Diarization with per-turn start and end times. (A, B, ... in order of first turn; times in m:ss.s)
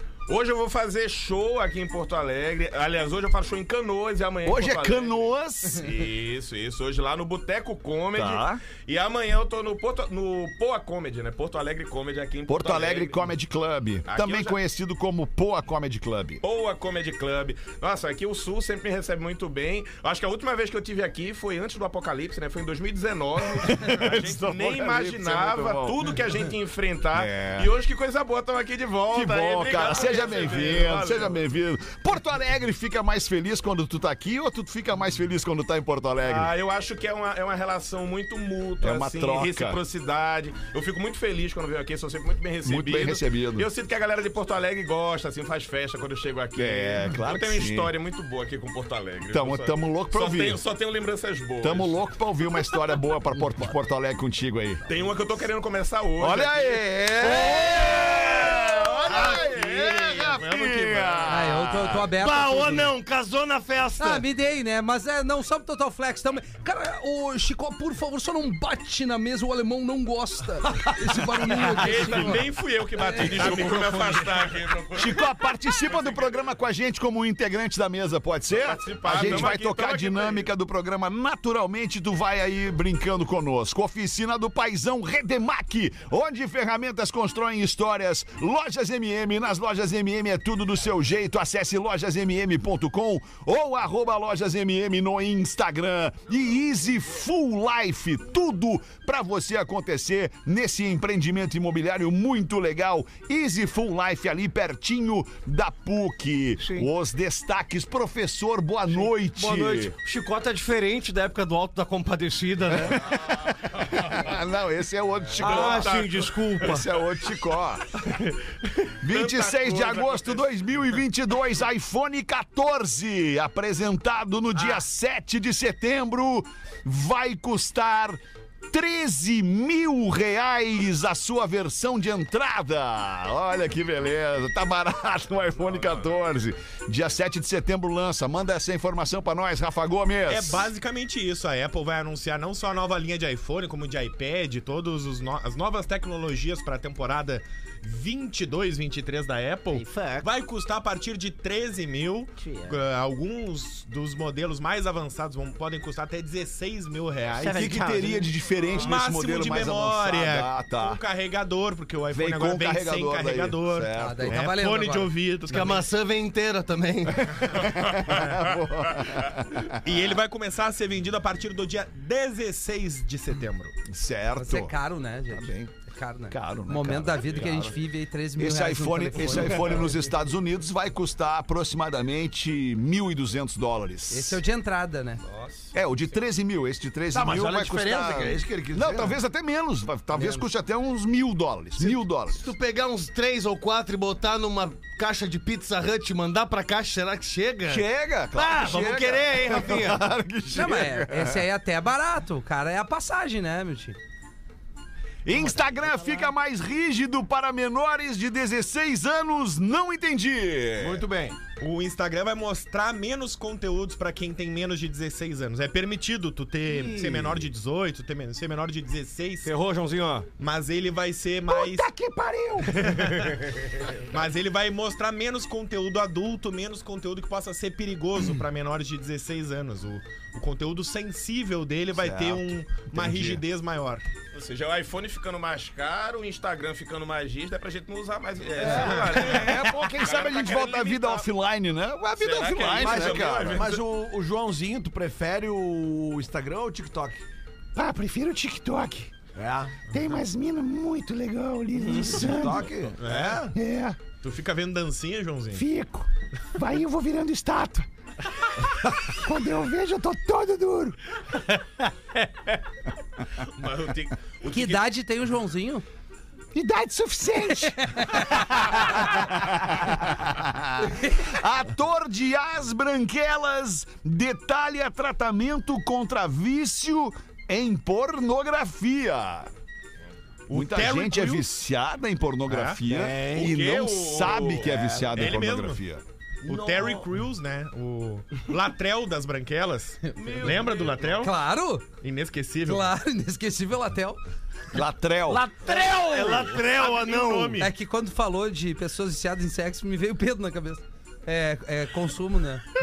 0:00.3-0:13.3 A
0:04.4-0:05.9 B
0:08.1-0:08.6 B
0:12.5-0:16.4 B
0:14.1-0:14.6 A
0:16.4-0:31.4 A
0:23.7-0:26.0 B
0:27.1-0:27.7 B
0:29.1-0:36.5 B
0:36.2-0:52.0 A
0:38.8-0:39.8 B
0:42.6-0:43.7 B
0:46.6-0:47.9 B
0:49.3-0:50.6 B
0:51.6-0:54.9 B
0:54.8-0:56.8 A
0:56.2-1:02.1 B
0:57.4-1:01.3 A
1:01.3-1:02.9 C
1:02.2-1:04.2 D
1:04.0-1:12.4 C
1:11.7-1:15.2 A
1:13.1-1:13.7 C
1:13.4-1:14.3 E
1:15.0-1:49.9 B
1:15.9-1:16.4 A
1:18.5-1:20.5 A
1:46.6-1:46.8 D
1:49.2-1:53.2 D
1:54.0-1:56.1 B
1:55.4-1:56.4 A
1:55.4-1:56.9 D
1:56.6-1:57.9 B
1:59.0-2:20.7 B
1:59.0-2:00.8 A
2:15.6-2:16.1 A
2:20.3-2:37.8 E
2:29.7-2:30.3 D
2:32.4-2:32.8 D
2:37.4-2:38.3 D
2:37.5-2:41.0 B
2:38.8-2:45.8 E
2:42.1-2:44.4 B
2:44.0-2:45.1 C
2:45.5-2:47.4 D
2:47.4-2:49.8 B
2:49.7-2:53.8 E
2:53.9-2:54.8 B
2:54.4-2:59.9 C
2:55.3-2:55.7 B
2:56.3-2:57.8 B
2:58.4-3:04.4 B
3:04.1-3:05.2 C
3:05.2-3:05.7 A
3:05.7-3:12.5 B
3:07.1-3:09.2 F
3:11.8-3:20.1 D
3:17.7-3:21.5 B
3:20.5-3:24.0 C
3:25.2-3:31.0 B
3:30.8-3:31.4 F
3:31.6-3:39.5 E
3:39.4-3:40.2 D
3:40.4-3:41.9 E
3:41.5-3:43.2 B
3:42.7-3:43.5 E
3:44.1-3:54.0 E
3:52.0-3:52.3 B
3:53.0-3:53.4 B
3:54.3-4:01.3 A
3:58.6-4:03.7 B
3:58.6-3:59.4 E
4:02.2-4:03.8 A
4:02.7-4:07.2 F
4:07.8-4:09.1 B
4:09.3-4:09.9 F
4:09.9-4:12.7 B
4:11.9-4:13.5 F
4:13.0-4:13.4 E
4:13.5-4:14.0 B
4:14.2-4:15.6 E
4:15.5-4:17.9 B
4:18.9-4:21.0 B
4:23.4-4:24.8 A
4:24.5-4:25.8 C
4:26.5-4:28.0 B
4:27.5-4:28.4 C
4:29.0-4:39.5 B
4:40.5-4:41.5 E
4:40.5-4:46.0 B
4:42.5-4:43.0 E
4:42.9-4:43.5 F
4:43.2-4:45.0 A
4:44.5-4:45.3 F
4:45.1-4:45.8 E
4:46.4-4:51.4 E
4:46.5-4:47.1 A
4:50.1-4:51.3 A
4:51.2-4:51.9 C
4:52.0-4:53.0 E
4:52.6-4:54.2 C
4:54.7-4:55.5 B
4:55.2-4:57.7 D
4:56.1-4:57.6 E
4:57.6-5:02.6 C